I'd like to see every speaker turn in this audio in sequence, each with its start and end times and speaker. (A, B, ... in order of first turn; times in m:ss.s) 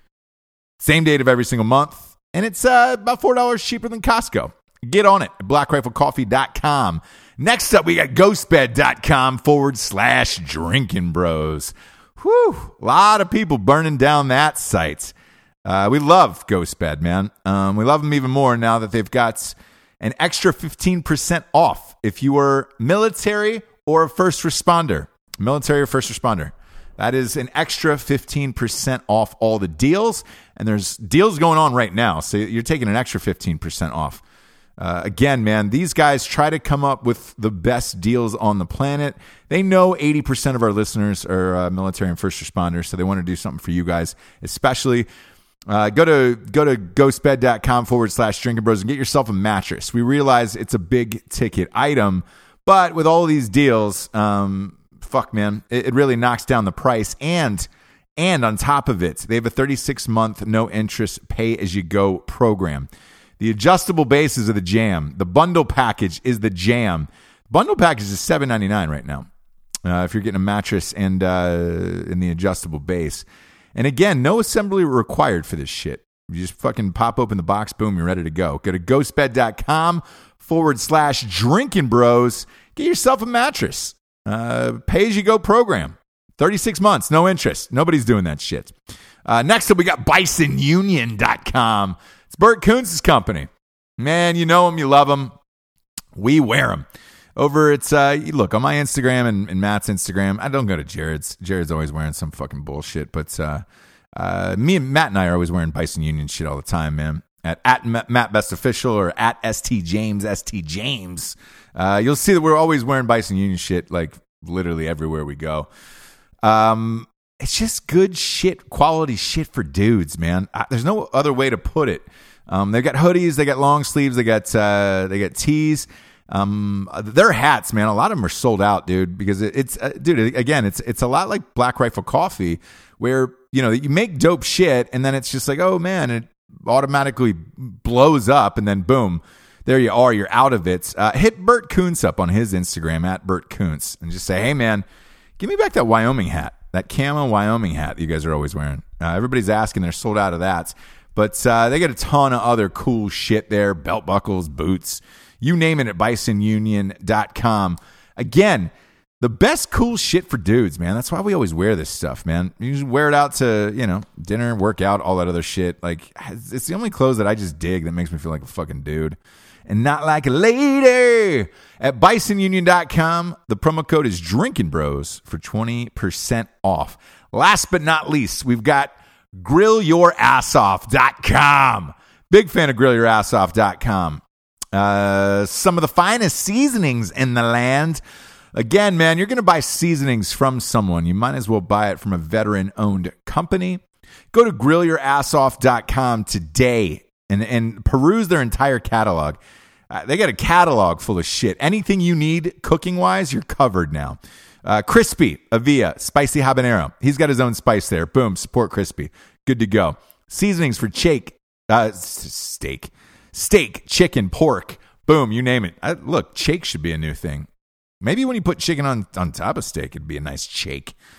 0:00.8-0:15.1 A
0:15.6-0:34.2 A
0:34.8-0:45.1 A
0:45.7-1:09.3 A
1:09.8-1:28.7 A
1:29.2-1:35.3 A
1:36.2-1:43.6 A
1:44.2-1:55.7 A
1:56.4-2:24.8 A
2:25.4-3:04.2 A
3:04.7-3:08.0 A
3:08.5-3:13.8 A
3:14.3-3:19.4 A
3:19.9-3:37.5 A
3:38.0-3:40.9 A